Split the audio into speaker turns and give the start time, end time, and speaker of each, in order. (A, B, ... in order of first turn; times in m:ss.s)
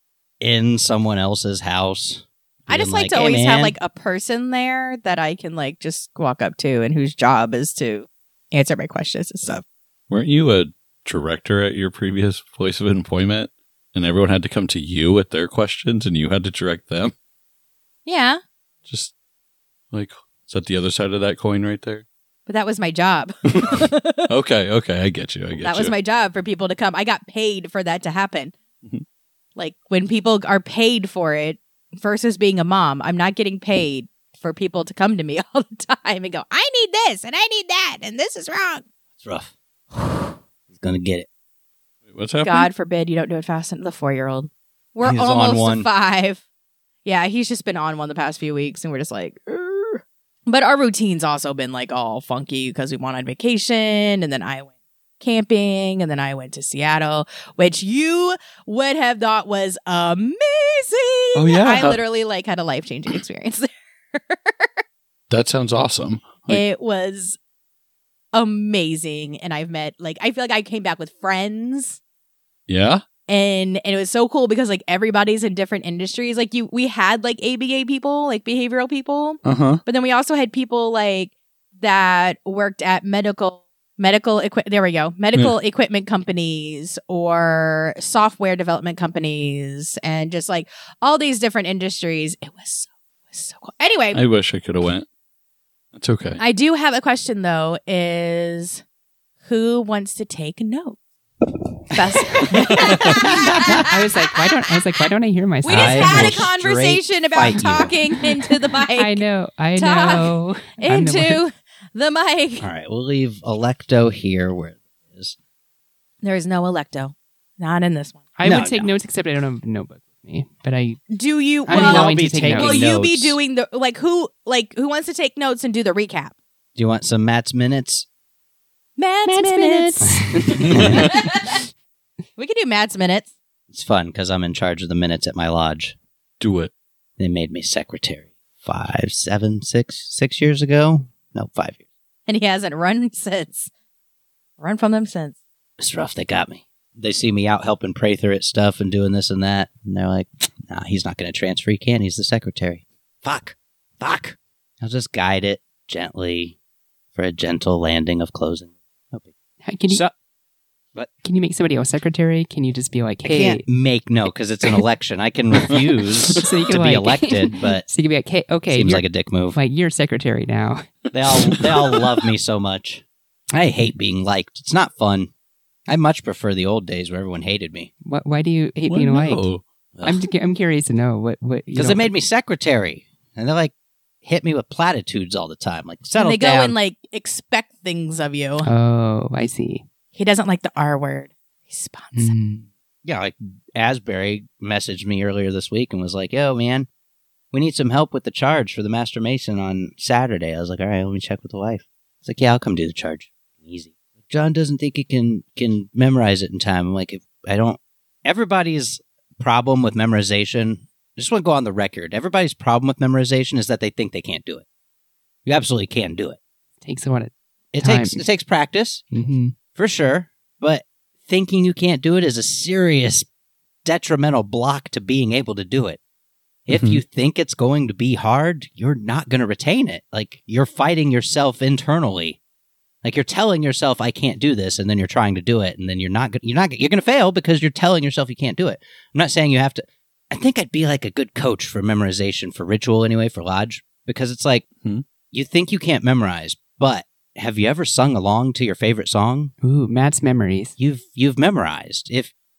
0:00.4-0:03.8 A
0:02.7-0:09.6 B
0:10.1-0:17.1 C
0:18.0-0:18.4 B
0:18.9-0:19.1 C
0:19.9-0:22.0 C
0:22.5-0:24.3 B
0:23.5-0:25.9 C
0:25.6-0:28.5 B
0:29.6-0:38.8 B
0:39.2-0:41.3 A
0:42.1-0:42.7 C
0:42.4-0:46.4 B
0:45.0-0:45.9 A
0:47.0-1:04.7 B
1:01.3-1:02.0 C
1:05.3-1:06.6 C
1:06.5-1:07.4 B
1:08.3-1:12.0 B
1:12.7-1:13.0 C
1:13.3-1:34.2 B
1:19.4-1:19.8 C
1:34.1-1:35.0 C
1:35.9-1:36.4 C
1:36.4-1:38.8 B
1:39.4-1:41.0 B
1:41.9-1:44.0 B
1:43.0-1:43.8 A
1:43.0-1:46.4 D
1:45.6-1:49.2 B
1:45.7-1:48.2 A
1:49.0-1:51.4 D
1:49.8-1:52.7 B
1:52.6-1:55.3 A
1:56.2-1:58.2 B
1:58.4-2:01.0 D
1:58.4-1:58.9 A
2:01.1-2:06.3 B
2:01.6-2:02.8 D
2:01.7-2:03.4 A
2:06.8-2:08.0 A
2:09.0-2:11.6 B
2:09.2-2:11.5 D
2:10.6-2:11.1 A
2:12.4-2:13.3 B
2:13.7-2:15.9 A
2:16.4-2:16.7 C
2:17.2-2:21.8 A
2:22.3-2:23.7 B
2:24.6-2:25.3 B
2:25.8-2:36.6 A
2:37.1-2:39.3 A
2:39.6-2:40.0 D
2:41.2-2:43.6 D
2:43.2-2:47.8 A
2:46.3-2:51.7 D
2:48.7-2:49.6 A
2:51.1-2:53.0 A
2:53.5-2:55.3 A
2:55.9-2:57.9 A
2:58.0-2:59.4 D
2:58.9-2:59.6 C
2:59.9-3:00.2 A
3:00.0-3:02.1 D
3:01.8-3:03.7 A
3:04.2-3:06.8 A
3:06.2-3:08.7 B
3:08.6-3:09.8 D
3:10.1-3:12.4 B
3:12.1-3:12.6 D
3:13.0-3:16.9 A
3:17.5-3:34.6 A
3:35.4-3:36.4 A
3:36.8-3:38.2 D
3:37.7-3:39.0 A
3:39.1-3:39.5 D
3:39.7-3:43.3 A
3:43.8-3:46.0 A
3:46.6-3:52.4 A
3:46.7-3:47.0 C
3:53.0-4:04.6 A
4:05.3-4:09.5 A
4:09.6-4:10.7 D
4:10.8-4:12.3 A